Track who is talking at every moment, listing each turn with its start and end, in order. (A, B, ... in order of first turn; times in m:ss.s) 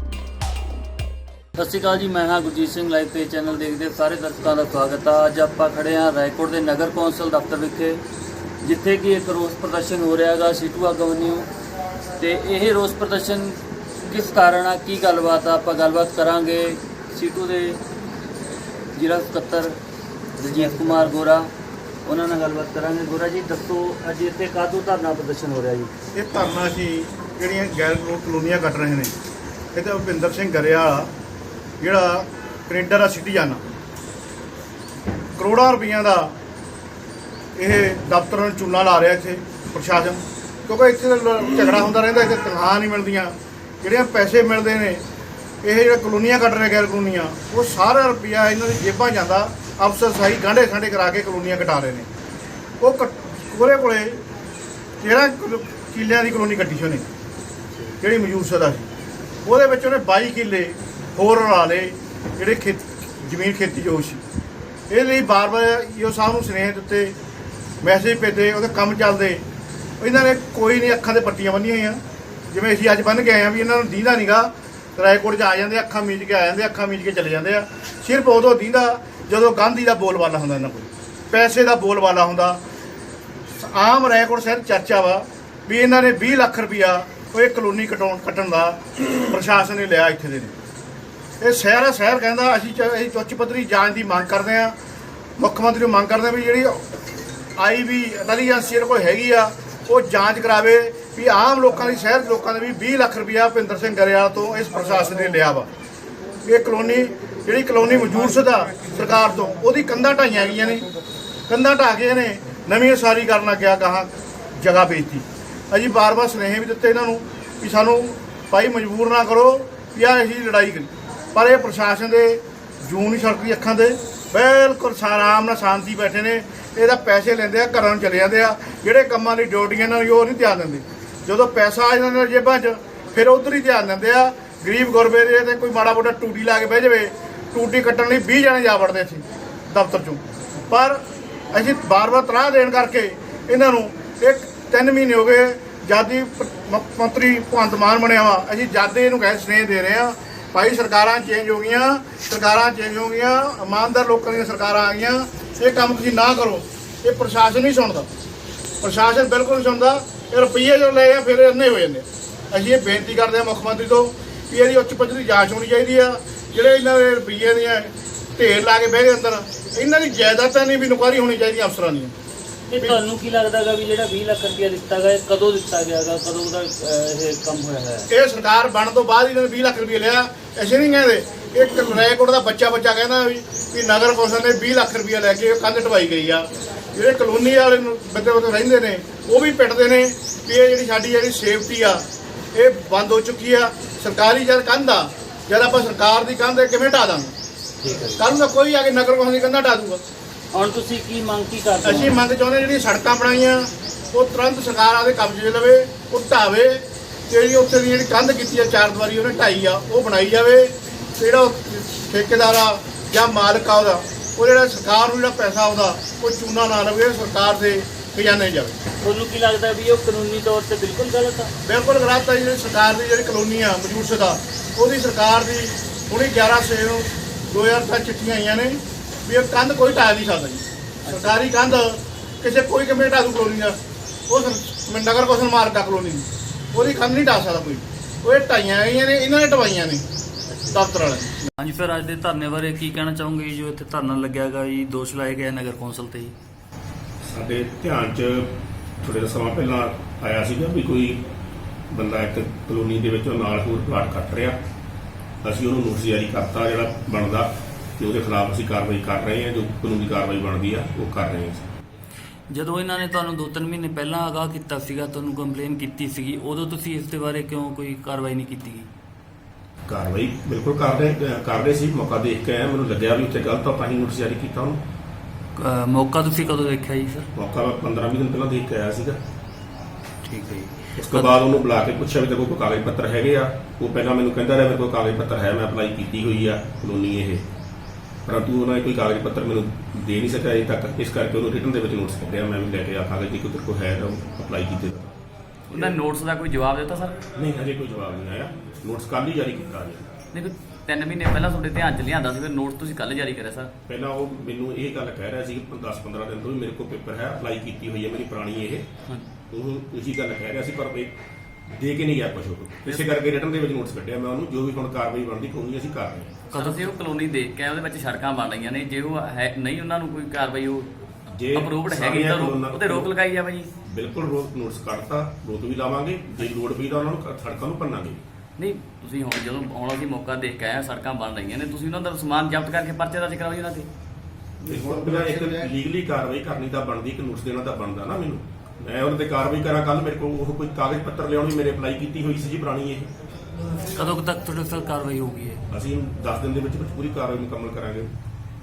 0:01.6-0:08.0 A
0:08.6-0:11.5 A
0:12.2-0:17.8 A
0:19.0-0:19.8 A
0:20.4-0:21.5 A
0:22.0-0:25.9 A
0:26.2-0:29.1 B
0:29.7-0:31.1 B
0:31.8-0:33.6 B
0:35.4-0:36.3 B
0:37.6-0:45.0 B
0:45.6-0:52.1 B
0:52.8-0:54.2 B
0:55.0-0:57.1 B
0:58.0-0:58.9 B
0:59.4-1:04.2 B
1:04.9-1:07.2 B
1:07.8-1:09.4 B
1:10.0-1:12.0 B
1:12.5-1:22.6 B
1:23.6-1:30.5 B
1:31.4-1:34.8 B
1:35.4-1:36.8 B
1:37.6-1:45.7 B
1:46.5-1:50.9 B
1:51.5-2:21.0 B
2:21.5-2:38.1 B
2:38.8-2:52.1 B
2:52.7-2:58.1 A
2:58.1-3:12.0 B
3:12.6-3:17.3 B
3:17.8-3:18.3 A
3:18.2-3:20.0 B
3:20.5-3:22.1 A
3:21.8-3:38.8 B
3:39.0-3:41.5 A
3:41.6-3:53.8 B
3:51.1-3:51.4 A
3:54.3-4:00.0 B
4:00.5-4:00.8 A
4:00.7-4:01.4 B
4:01.6-4:06.3 A
4:07.3-4:11.2 C
4:11.9-4:14.6 C
4:15.4-4:21.7 C
4:22.5-4:28.9 A
4:29.9-4:34.8 C
4:35.6-4:37.3 A
4:37.4-4:39.2 C
4:40.3-4:41.3 A
4:41.0-4:47.4 C
4:48.3-4:55.1 C
4:55.7-4:57.2 D
4:57.4-5:00.1 C
5:00.3-5:03.7 D
5:03.9-5:08.9 C
5:09.5-5:11.2 C
5:11.7-5:16.4 C
5:16.5-5:16.9 A
5:16.5-5:20.9 D
5:21.3-5:23.1 C
5:21.5-5:23.7 D
5:23.8-5:28.2 C
5:28.6-5:33.9 D
5:34.7-5:43.1 C
5:43.9-5:45.6 A
5:45.7-5:48.1 C